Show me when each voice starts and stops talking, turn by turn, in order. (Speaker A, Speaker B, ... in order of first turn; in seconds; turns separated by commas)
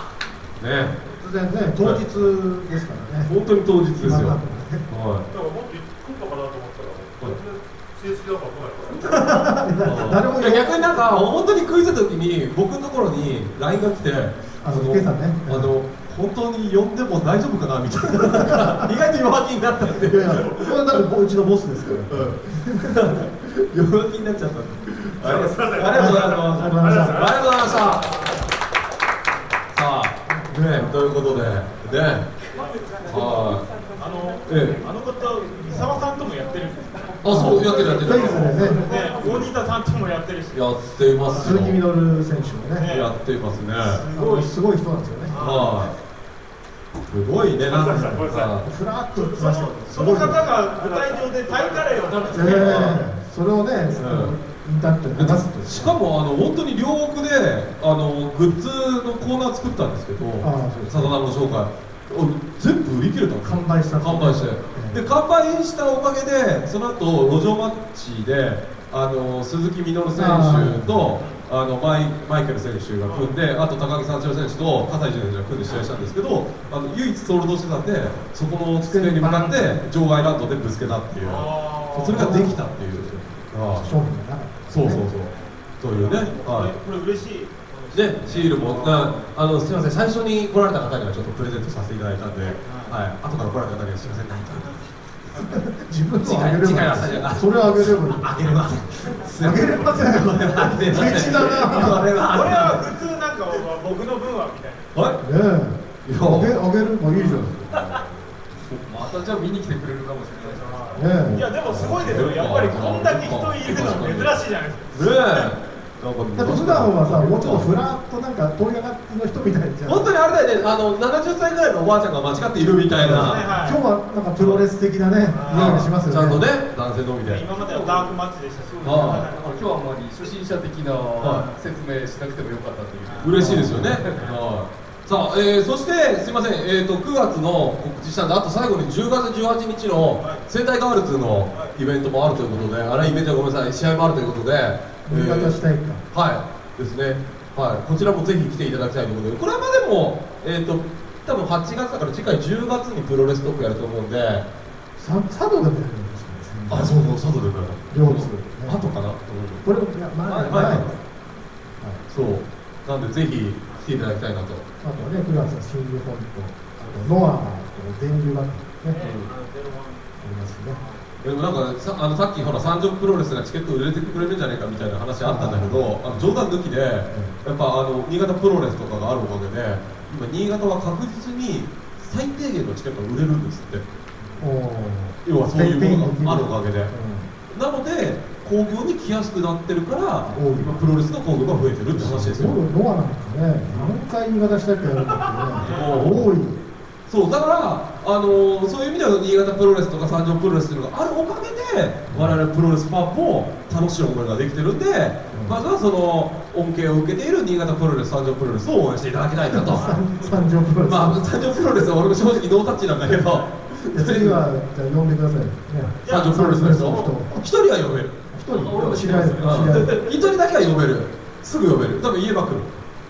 Speaker A: 0.6-1.0, Speaker B: 1.0-3.3, Speaker A: 3.3-5.3, Speaker B: 4.0-4.9, Speaker C: 5.3-10.2, Speaker B: 9.0-10.9, Speaker A: 9.8-21.0, Speaker B: 14.6-15.7, Speaker B: 18.4-18.9, Speaker B: 20.1-23.2, Speaker A: 21.9-28.2, Speaker C: 25.2-28.5, Speaker B: 25.9-27.2, Speaker A: 29.7-32.4, Speaker B: 30.3-30.9, Speaker D: 32.6-40.6, Speaker A: 33.0-33.7, Speaker A: 34.5-34.8, Speaker A: 37.2-38.6, Speaker B: 37.2-38.9, Speaker C: 37.4-39.5, Speaker A: 40.5-41.8, Speaker B: 41.3-42.9, Speaker C: 41.3-41.6, Speaker D: 42.7-43.2, Speaker A: 42.9-44.0, Speaker D: 43.9-44.5, Speaker C: 43.9-44.5, Speaker B: 44.1-45.4, Speaker C: 45.3-45.9, Speaker A: 45.4-46.0, Speaker A: 46.9-48.7, Speaker C: 47.6-53.0, Speaker B: 47.9-50.4, Speaker D: 49.4-53.0, Speaker B: 52.3-56.0, Speaker A: 52.4-53.0, Speaker A: 54.0-54.3, Speaker A: 55.2-84.1, Speaker B: 60.4-61.2, Speaker B: 63.4-65.0, Speaker B: 70.1-71.1, Speaker C: 73.0-73.4, Speaker B: 78.8-79.8, Speaker C: 81.2-82.7, Speaker B: 82.1-85.0, Speaker A: 84.7-86.7, Speaker D: 85.3-89.2, Speaker C: 87.7-89.2, Speaker A: 87.9-95.6, Speaker D: 92.6-93.0, Speaker B: 95.5-98.7, Speaker A: 96.2-102.8, Speaker B: 99.4-102.1, Speaker D: 101.0-105.0, Speaker A: 104.9-105.2, Speaker B: 105.2-107.6, Speaker A: 106.0-106.6, Speaker E: 107.3-108.0, Speaker C: 107.5-109.2, Speaker E: 108.7-111.1, Speaker C: 110.3-111.2, Speaker D: 110.5-115.5, Speaker B: 111.0-111.5, Speaker A: 111.2-117.8, Speaker B: 116.4-120.1, Speaker A: 119.8-123.5, Speaker B: 123.0-126.5, Speaker D: 123.0-123.8, Speaker D: 125.3-125.8, Speaker A: 125.5-127.5, Speaker D: 127.2-129.5, Speaker E: 127.5-128.2, Speaker E: 128.7-134.3, Speaker A: 128.8-129.3, Speaker A: 131.2-131.4, Speaker D: 131.2-131.6, Speaker D: 133.0-133.5, Speaker A: 133.2-145.6, Speaker B: 133.4-134.1, Speaker D: 134.2-134.4, Speaker C: 140.2-142.7, Speaker B: 145.1-146.0, Speaker A: 146.1-154.5, Speaker B: 155.0-157.0, Speaker A: 156.7-159.7, Speaker B: 157.9-158.8, Speaker B: 159.6-161.0, Speaker A: 160.2-160.9, Speaker A: 162.1-164.7, Speaker B: 164.8-169.0, Speaker D: 168.9-170.1, Speaker A: 169.0-169.3, Speaker B: 170.2-170.8, Speaker D: 170.7-171.2, Speaker A: 171.2-183.8, Speaker B: 175.2-176.4, Speaker B: 177.1-177.4, Speaker B: 184.4-187.3, Speaker A: 185.2-186.9, Speaker A: 187.5-192.6, Speaker B: 190.3-191.0, Speaker B: 191.9-196.6, Speaker D: 195.2-196.0, Speaker A: 195.6-196.3, Speaker A: 197.1-210.0, Speaker B: 202.1-202.4, Speaker B: 205.3-205.6, Speaker B: 209.5-211.3, Speaker D: 209.8-210.5, Speaker A: 210.8-214.4, Speaker B: 213.9-217.4, Speaker D: 216.0-217.1, Speaker A: 216.1-218.2, Speaker B: 218.3-219.9, Speaker E: 218.5-220.2, Speaker A: 219.4-222.8